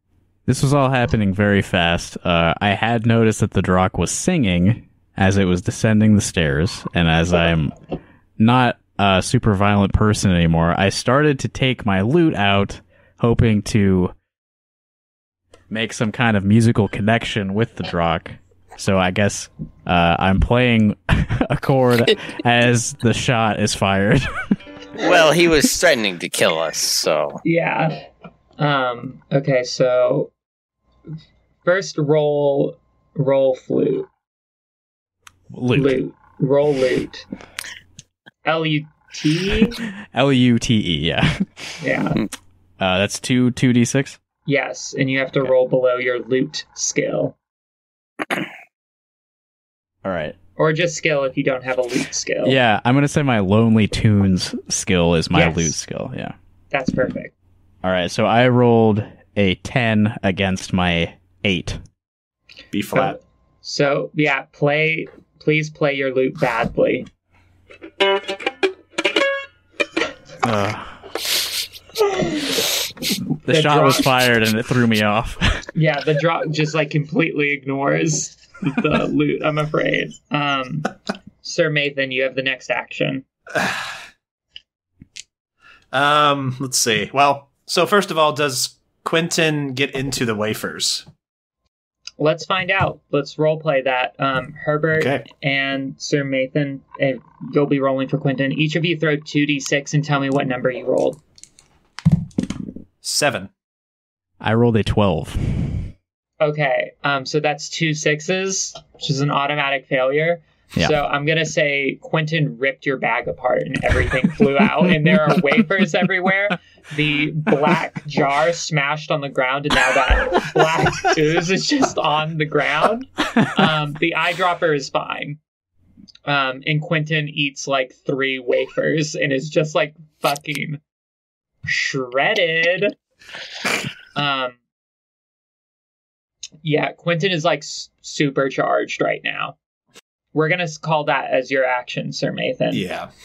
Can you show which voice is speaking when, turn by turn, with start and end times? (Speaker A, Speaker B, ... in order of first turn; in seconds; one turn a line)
Speaker A: 0.5-7.7
Speaker A: 8.4-14.1
Speaker A: 15.7-24.5
Speaker B: 25.0-27.4
Speaker C: 27.4-28.0
Speaker C: 28.6-30.3
Speaker C: 31.6-34.1
Speaker A: 35.5-36.0
Speaker C: 35.7-37.2
Speaker C: 38.4-39.8
Speaker A: 40.1-41.3
Speaker C: 41.8-42.3
Speaker A: 42.8-44.2
Speaker C: 44.5-47.4
Speaker A: 50.0-50.4
Speaker C: 50.6-52.6
Speaker A: 52.4-56.3
Speaker C: 55.3-55.8
Speaker C: 56.7-57.3
Speaker A: 57.8-61.8
Speaker D: 62.7-63.1
Speaker C: 62.9-67.1
Speaker A: 70.4-70.9
Speaker A: 73.4-75.6
Speaker C: 73.5-74.1
Speaker C: 75.7-80.9
Speaker C: 81.4-83.2
Speaker D: 85.9-91.0
Speaker C: 92.2-101.2
Speaker D: 94.9-95.2
Speaker D: 103.0-103.5
Speaker A: 104.4-105.9
Speaker C: 106.4-125.4
Speaker C: 126.2-130.8
Speaker C: 131.6-132.9
Speaker C: 134.1-134.6
Speaker C: 136.6-139.6
Speaker C: 140.3-142.8
Speaker D: 142.7-143.1